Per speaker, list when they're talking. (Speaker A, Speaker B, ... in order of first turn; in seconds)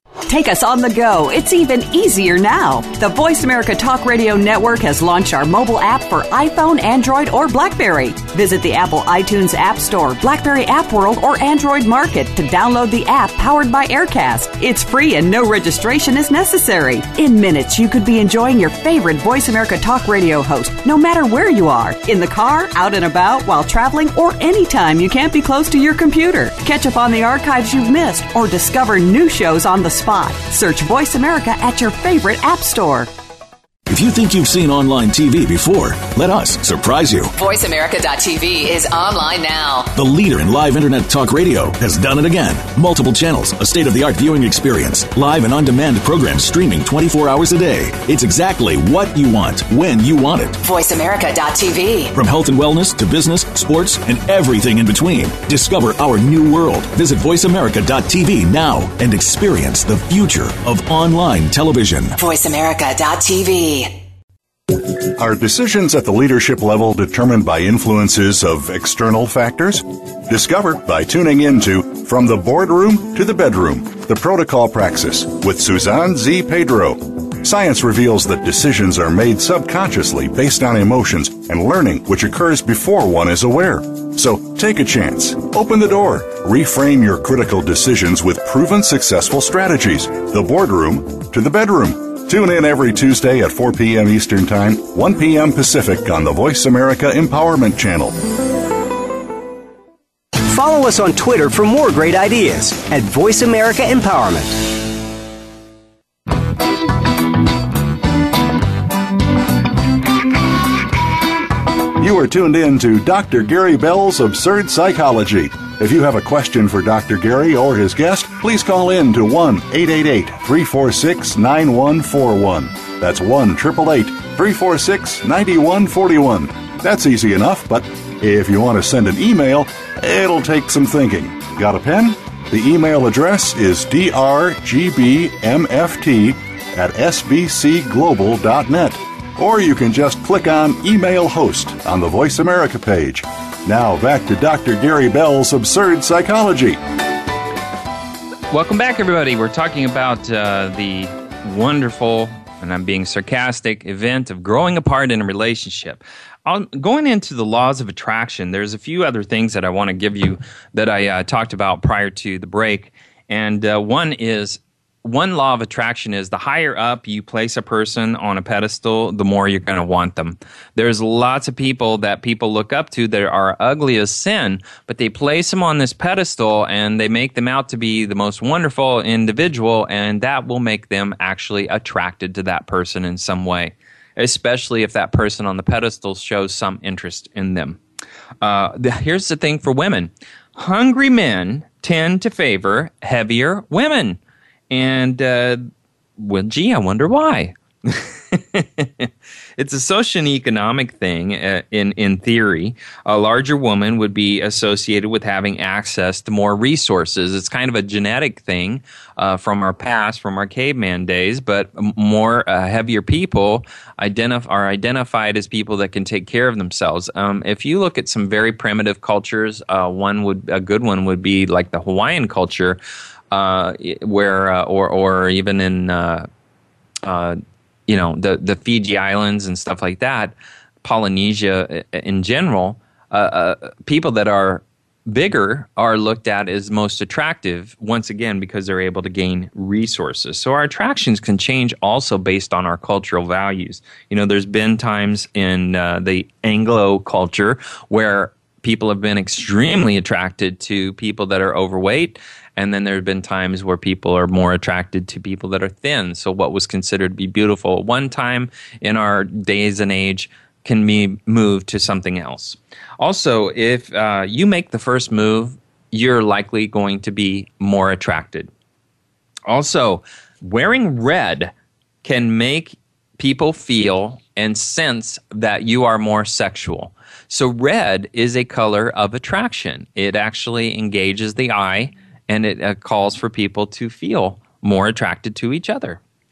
Speaker A: 0.3-33.1
Speaker B: 33.9-37.3, 40.0-50.6, 52.1-62.2
Speaker C: 37.3-39.9, 50.6-52.1, 62.2-64.0
Speaker D: 64.7-98.2, 112.0-146.8
Speaker E: 100.4-104.6
Speaker F: 148.5-187.8, 188.4-194.2, 194.7-195.7, 196.2-222.8, 223.3-226.3, 227.0-268.5, 269.5-271.5, 272.0-286.0